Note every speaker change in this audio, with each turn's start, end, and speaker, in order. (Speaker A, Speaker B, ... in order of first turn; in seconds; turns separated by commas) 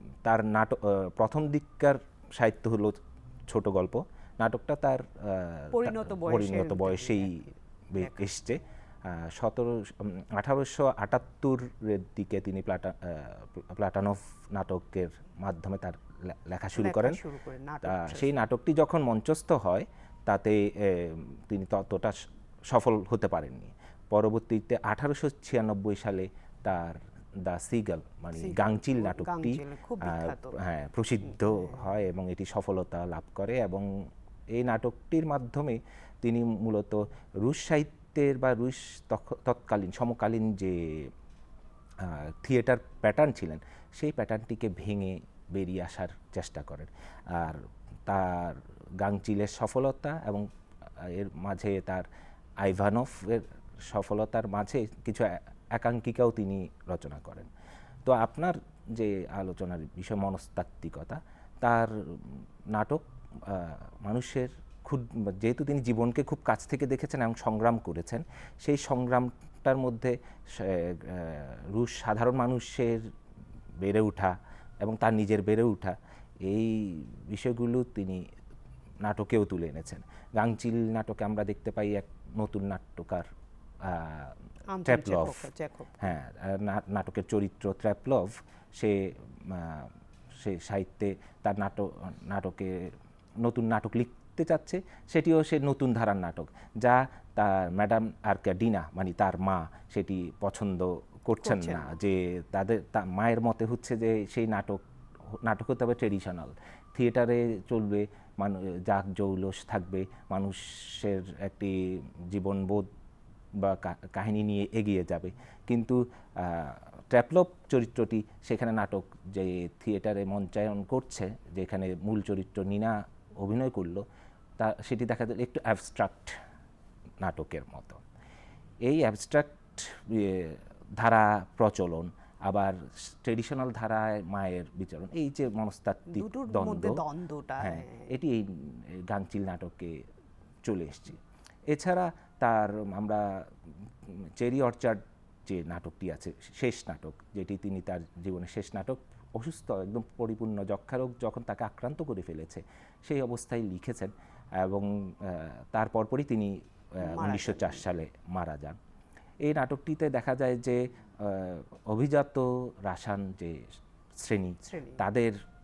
Speaker A: 0.2-7.4, Speaker B: 5.7-8.2, Speaker A: 7.9-17.2, Speaker B: 16.8-18.3, Speaker A: 17.8-22.2, Speaker A: 22.7-41.1, Speaker B: 28.4-30.6, Speaker B: 31.3-31.8, Speaker A: 42.0-52.1, Speaker A: 52.6-57.5, Speaker A: 58.0-73.1, Speaker A: 73.8-78.2, Speaker A: 79.0-83.3, Speaker A: 83.8-85.5, Speaker B: 84.7-86.1, Speaker A: 86.0-104.8, Speaker B: 101.4-101.9, Speaker A: 105.4-112.9, Speaker A: 113.6-124.0, Speaker A: 124.6-126.4, Speaker A: 127.2-128.0, Speaker A: 128.8-137.0, Speaker B: 136.1-138.1, Speaker A: 137.6-140.1, Speaker A: 140.6-158.8, Speaker B: 157.0-157.8, Speaker A: 159.4-165.4, Speaker B: 164.6-165.0